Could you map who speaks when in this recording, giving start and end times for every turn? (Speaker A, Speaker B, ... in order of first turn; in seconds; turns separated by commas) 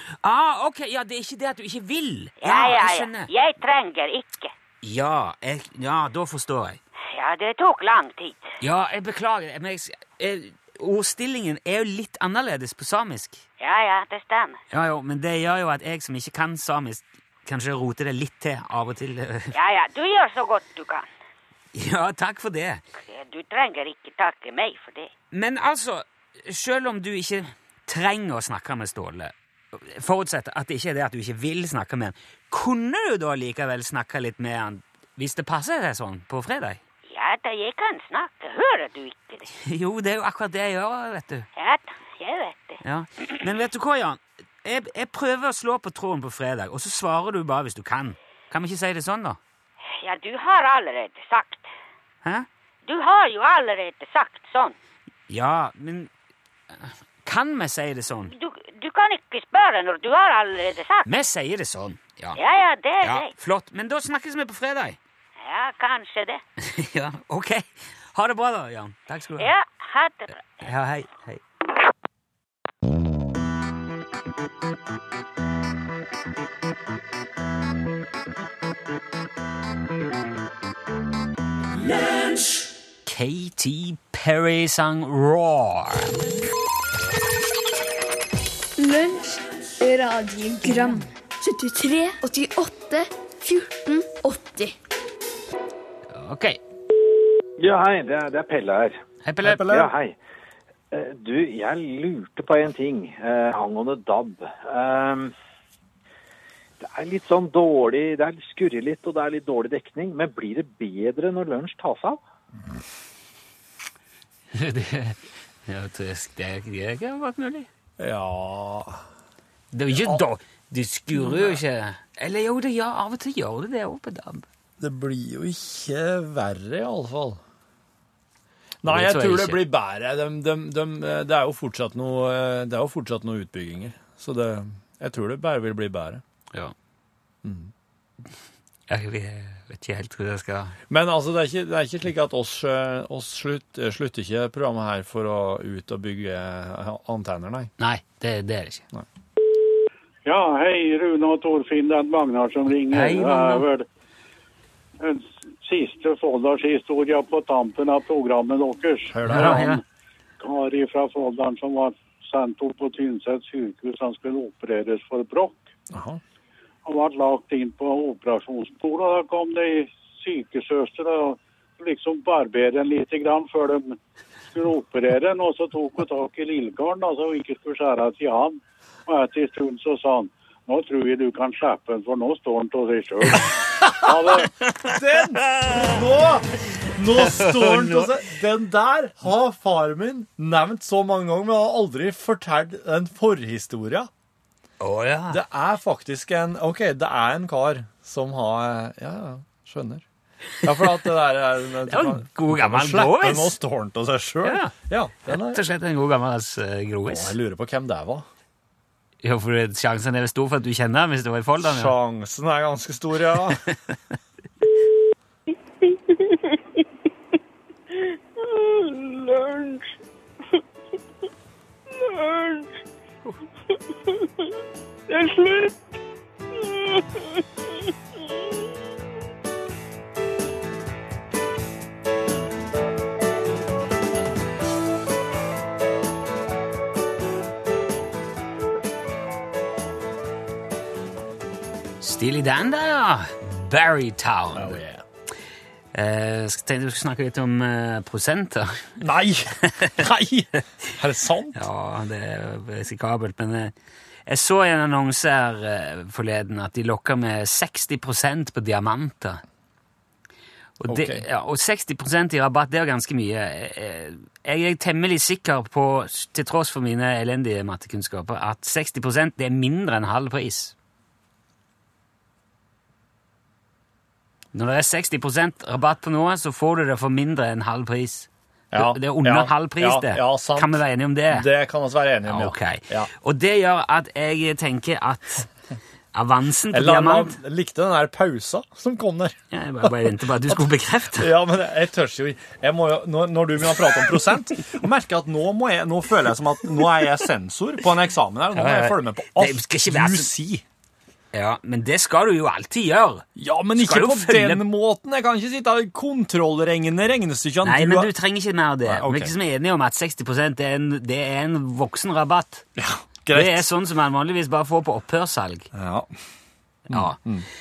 Speaker A: 0.2-3.3, Speaker B: 2.4-4.5, Speaker A: 4.8-6.8, Speaker B: 7.1-8.5, Speaker A: 8.6-13.4, Speaker B: 13.6-14.6, Speaker A: 14.7-19.5, Speaker B: 19.5-21.1, Speaker A: 21.7-22.8, Speaker B: 23.0-25.1, Speaker A: 25.3-36.8, Speaker B: 37.1-39.5, Speaker A: 39.6-41.5, Speaker B: 41.5-42.8, Speaker A: 42.8-49.4, Speaker B: 49.8-51.7, Speaker B: 52.9-54.8, Speaker A: 55.3-56.1, Speaker A: 56.8-58.3, Speaker B: 58.3-61.1, Speaker A: 61.0-62.4, Speaker B: 62.4-63.3, Speaker A: 63.0-65.0, Speaker B: 65.4-66.4, Speaker A: 66.6-69.5, Speaker B: 69.4-70.3, Speaker A: 70.6-71.4, Speaker A: 83.0-86.2, Speaker C: 88.8-94.7, Speaker A: 96.1-96.6, Speaker D: 97.6-99.0, Speaker A: 99.2-99.9, Speaker E: 99.4-99.9, Speaker D: 99.5-100.2, Speaker D: 100.9-105.3, Speaker D: 106.8-112.2, Speaker A: 114.5-117.7, Speaker E: 118.0-119.0, Speaker A: 119.7-124.5, Speaker E: 119.9-120.2, Speaker E: 121.1-121.6, Speaker E: 124.8-127.4, Speaker E: 128.8-136.2, Speaker A: 128.8-129.6, Speaker E: 137.4-137.7, Speaker A: 138.9-140.8, Speaker E: 140.9-147.7, Speaker A: 147.8-148.8, Speaker F: 150.2-153.8, Speaker A: 152.9-153.7, Speaker F: 155.0-159.8, Speaker E: 159.1-159.7, Speaker A: 159.3-159.8, Speaker F: 160.4-165.6, Speaker E: 165.9-166.2, Speaker F: 166.8-174.0, Speaker F: 174.5-184.5, Speaker A: 184.6-185.9, Speaker E: 184.8-194.1, Speaker A: 187.2-188.1, Speaker A: 194.8-195.4, Speaker E: 195.3-200.0, Speaker E: 200.6-205.6, Speaker A: 201.9-203.6, Speaker A: 204.4-204.7, Speaker A: 205.2-207.3, Speaker E: 207.1-208.2, Speaker A: 209.2-211.9, Speaker E: 211.6-213.6, Speaker G: 218.4-219.9, Speaker G: 221.9-222.7, Speaker G: 225.1-225.8, Speaker G: 226.5-227.1, Speaker A: 242.0-244.8, Speaker E: 244.5-245.0, Speaker A: 245.9-249.0, Speaker E: 249.0-251.6, Speaker A: 251.5-253.7, Speaker A: 254.3-259.4, Speaker A: 260.8-270.7, Speaker E: 260.9-261.2, Speaker A: 274.5-281.5, Speaker E: 278.7-283.1, Speaker A: 282.2-285.5, Speaker A: 286.1-287.4, Speaker E: 286.7-289.9, Speaker A: 289.5-291.3, Speaker E: 291.1-300.6, Speaker A: 298.5-300.3, Speaker A: 301.3-304.6, Speaker E: 303.4-308.1, Speaker A: 307.6-312.6, Speaker E: 308.9-309.3, Speaker E: 312.8-313.6, Speaker A: 313.3-315.7, Speaker E: 315.7-316.1, Speaker A: 316.9-317.2, Speaker E: 316.9-317.4